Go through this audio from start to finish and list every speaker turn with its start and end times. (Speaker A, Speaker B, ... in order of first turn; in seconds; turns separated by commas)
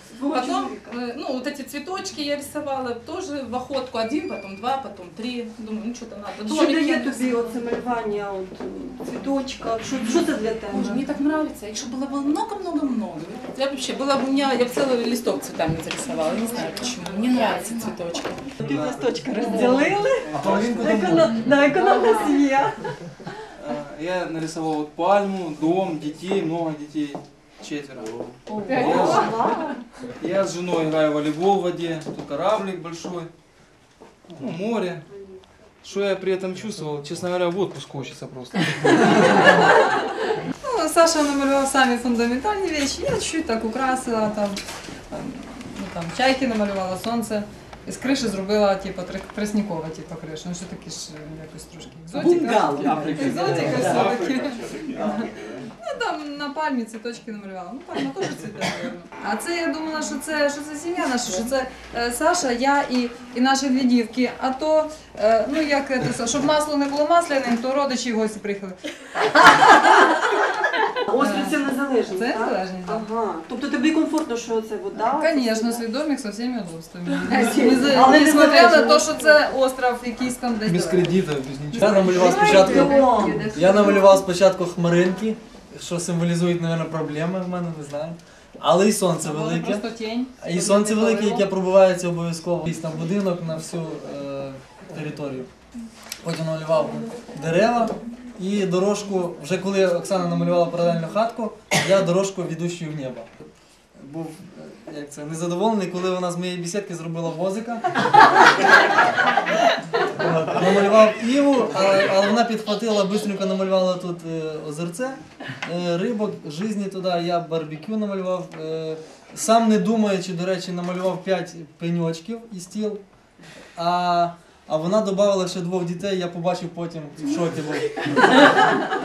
Speaker A: 0.2-0.9, Speaker B: 0.2-7.4, Speaker A: 6.4-11.0, Speaker B: 10.1-18.5, Speaker A: 18.6-22.9, Speaker C: 20.3-21.4, Speaker B: 21.8-22.1, Speaker C: 23.7-28.1, Speaker A: 28.5-29.7, Speaker C: 28.8-29.2, Speaker C: 30.2-33.3, Speaker C: 34.4-35.0, Speaker C: 35.8-38.6, Speaker D: 38.9-40.1, Speaker D: 40.6-44.6, Speaker D: 45.1-68.8, Speaker C: 53.1-53.4, Speaker A: 69.6-70.2, Speaker A: 71.1-75.8, Speaker D: 71.2-73.1, Speaker D: 75.0-84.2, Speaker A: 77.2-79.3, Speaker E: 80.7-82.9, Speaker A: 82.5-83.4, Speaker E: 83.5-95.5, Speaker D: 89.2-91.5, Speaker E: 96.2-103.3, Speaker E: 104.0-108.4, Speaker E: 110.0-123.0, Speaker E: 123.8-128.7